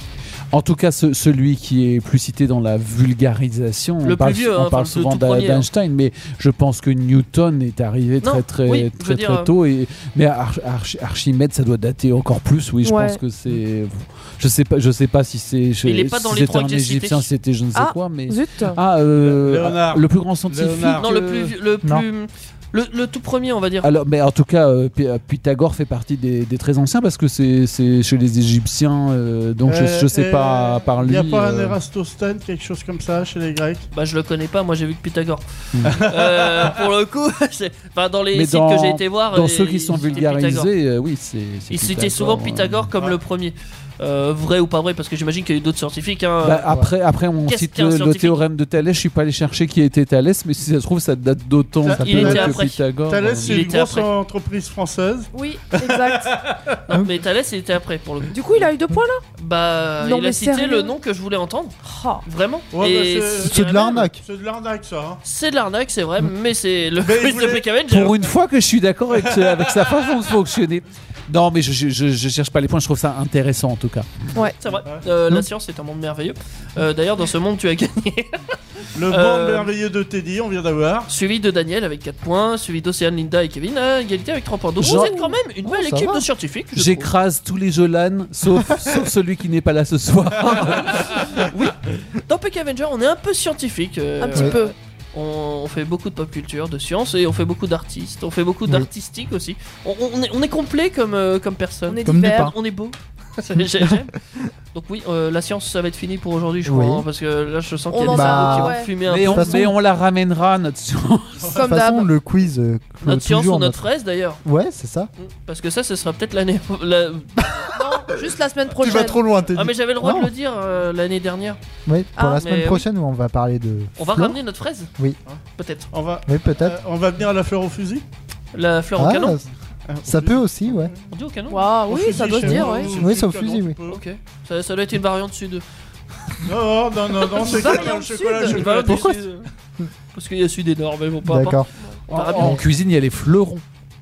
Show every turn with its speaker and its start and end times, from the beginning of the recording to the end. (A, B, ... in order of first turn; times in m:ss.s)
0:00.5-0:21.1 A
0:04.0-0:05.7 B
0:08.2-0:09.5 B
0:12.8-0:13.2 C
0:15.8-0:17.3 B
0:17.7-0:18.8 C
0:19.1-0:21.5 D
0:21.0-0:23.9 B
0:23.8-0:31.8 A
0:29.6-0:33.9 D
0:33.9-0:40.7 B
0:35.7-0:36.0 A
0:35.8-0:36.8 D
0:38.3-0:42.9 A
0:41.7-0:46.7 B
0:46.4-0:53.5 A
0:47.4-0:48.4 B
0:51.8-0:56.6 D
0:52.0-0:52.4 E
0:52.0-0:52.8 B
0:53.4-0:54.1 B
0:55.3-0:56.3 C
0:56.9-0:58.6 B
0:58.3-0:59.2 C
0:59.4-1:04.1 B
1:00.0-1:00.9 C
1:01.8-1:02.2 C
1:02.7-1:03.6 D
1:03.4-1:04.2 E
1:04.2-1:05.2 D
1:05.2-1:08.2 B
1:07.0-1:07.6 D
1:07.9-1:14.1 A
1:09.1-1:10.1 D
1:14.6-1:18.6 B
1:18.9-1:21.1 D
1:19.1-1:19.7 B
1:21.1-1:27.1 B
1:24.8-1:25.2 A
1:24.9-1:25.3 C
1:25.6-1:26.2 E
1:26.8-1:31.2 A
1:30.4-1:44.1 B
1:34.2-1:34.7 C
1:41.9-1:42.5 C
1:42.0-1:42.5 E
1:43.6-1:44.1 E
1:44.7-1:49.5 B
1:46.6-1:47.0 E
1:47.9-1:49.6 C
1:48.1-1:49.7 E
1:49.0-1:51.5 A
1:51.5-1:52.1 C
1:51.6-1:53.8 E
1:53.0-1:54.4 B
1:54.4-1:55.1 E
1:55.2-1:57.7 B
1:57.7-1:59.2 C
1:58.8-2:01.6 B
1:58.8-1:59.7 D
2:00.0-2:00.3 E
2:01.8-2:04.4 E
2:02.2-2:02.5 C
2:02.3-2:02.8 B
2:04.0-2:04.9 B
2:05.6-2:05.9 B
2:05.9-2:08.0 D
2:06.2-2:06.8 E
2:08.5-2:09.4 B
2:09.0-2:09.4 E
2:09.9-2:11.0 D
2:10.0-2:10.9 E
2:11.1-2:11.7 B
2:11.5-2:12.9 C
2:11.9-2:14.0 D
2:12.4-2:13.8 E
2:13.9-2:15.6 B
2:16.4-2:19.2 D
2:17.3-2:18.6 C
2:17.4-2:19.4 B
2:18.9-2:19.2 E
2:20.1-2:22.6 B
2:21.2-2:21.7 E
2:22.1-2:23.6 A
2:22.4-2:22.6 E